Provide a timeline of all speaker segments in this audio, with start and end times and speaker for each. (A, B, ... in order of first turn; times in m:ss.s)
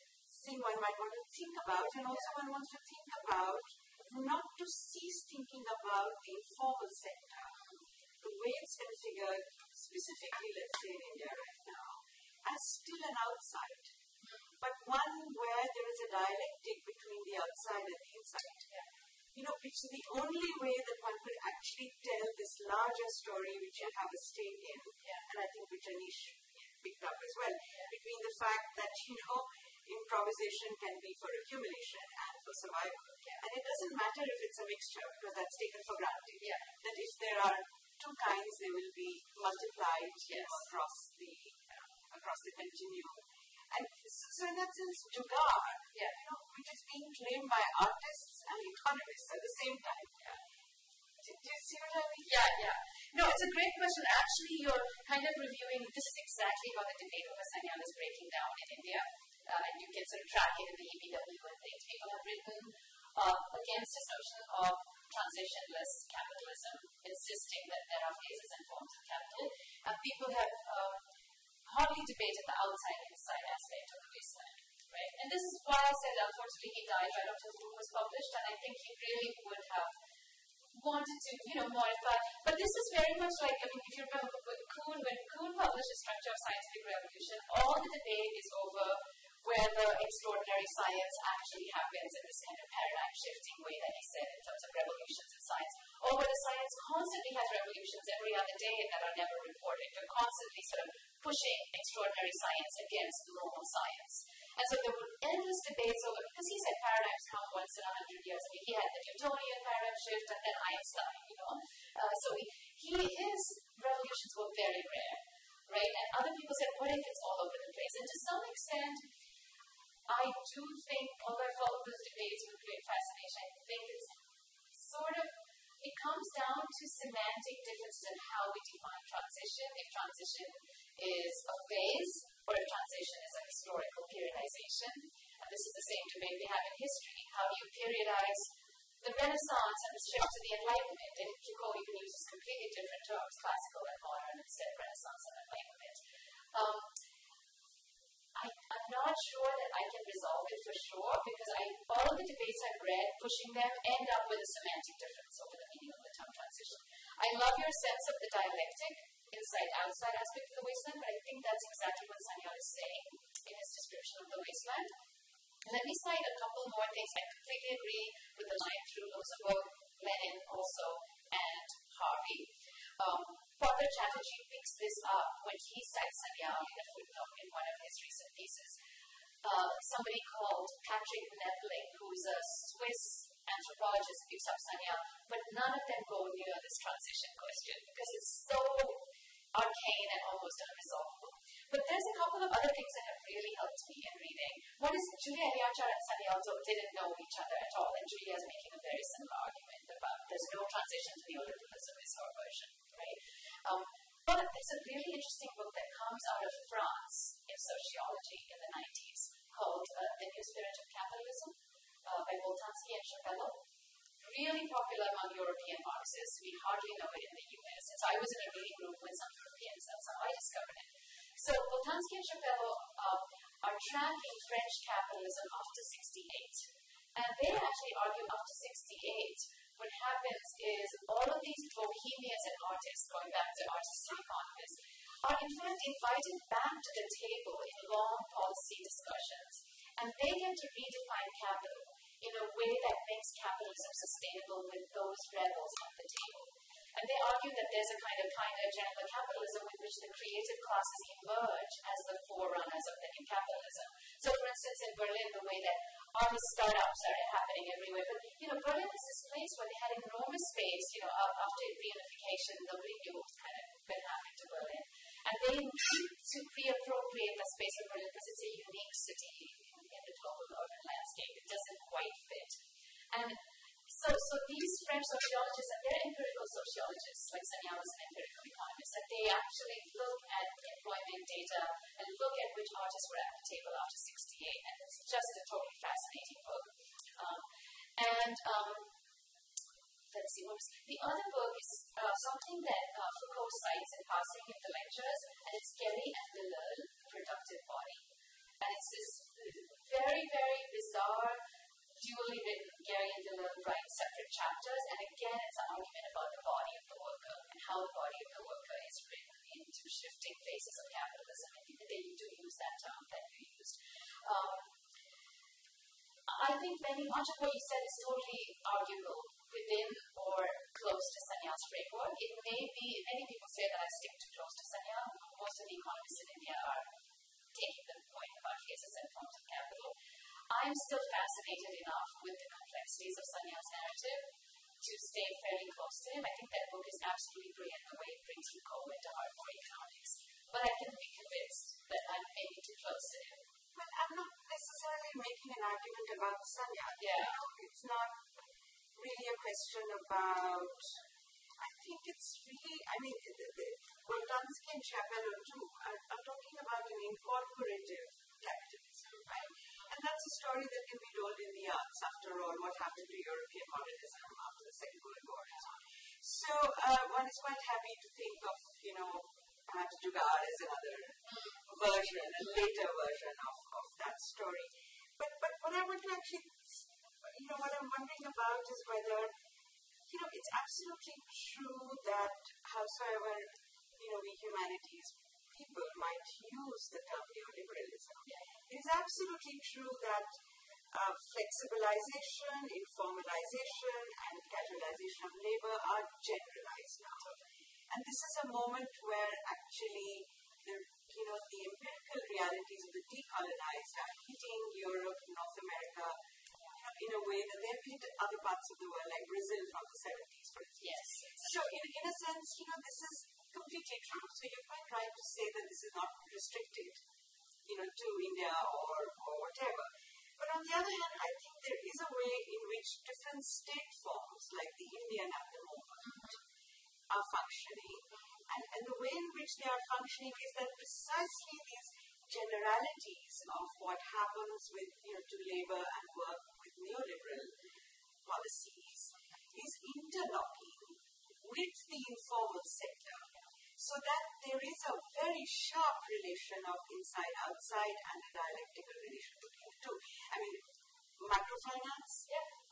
0:00.3-0:07.5 A
0:08.2-0:13.9 A
0:14.2-0:14.6 B
0:14.6-0:18.6 A
0:19.3-0:50.1 A
0:36.4-0:36.7 B
0:40.2-0:40.6 B
0:45.9-0:46.2 B
0:51.2-0:52.3 A
0:52.2-1:11.0 B
1:11.7-1:19.9 B
1:20.7-1:59.0 B
2:00.1-2:04.2 B
2:04.7-2:18.4 B
2:19.0-2:26.0 B
2:26.5-2:26.9 B
2:28.4-2:44.9 B
2:45.6-2:58.7 B
2:59.4-3:09.0 B
3:09.5-3:33.6 B
3:34.2-3:46.6 B
3:47.1-4:32.6 B
4:33.1-4:47.4 B
4:48.0-4:48.9 B
4:50.1-4:58.0 B
4:58.6-5:01.4 B
5:02.0-5:14.7 B
5:16.3-5:26.8 B
5:27.5-5:29.9 B
5:30.5-5:34.2 B
5:34.8-5:43.4 B
5:43.7-5:48.3 A
5:47.0-5:47.4 B
5:48.9-5:51.0 A
5:51.6-6:19.3 A
6:11.3-6:11.5 B
6:20.1-6:30.3 A
6:28.2-6:28.5 B
6:30.9-6:37.3 A
6:37.9-6:46.2 A
6:46.8-6:57.0 A
6:50.8-6:51.5 B
6:57.6-7:06.4 A
7:06.0-7:06.3 B
7:07.1-7:17.6 A
7:18.2-7:30.6 A
7:31.2-7:32.2 A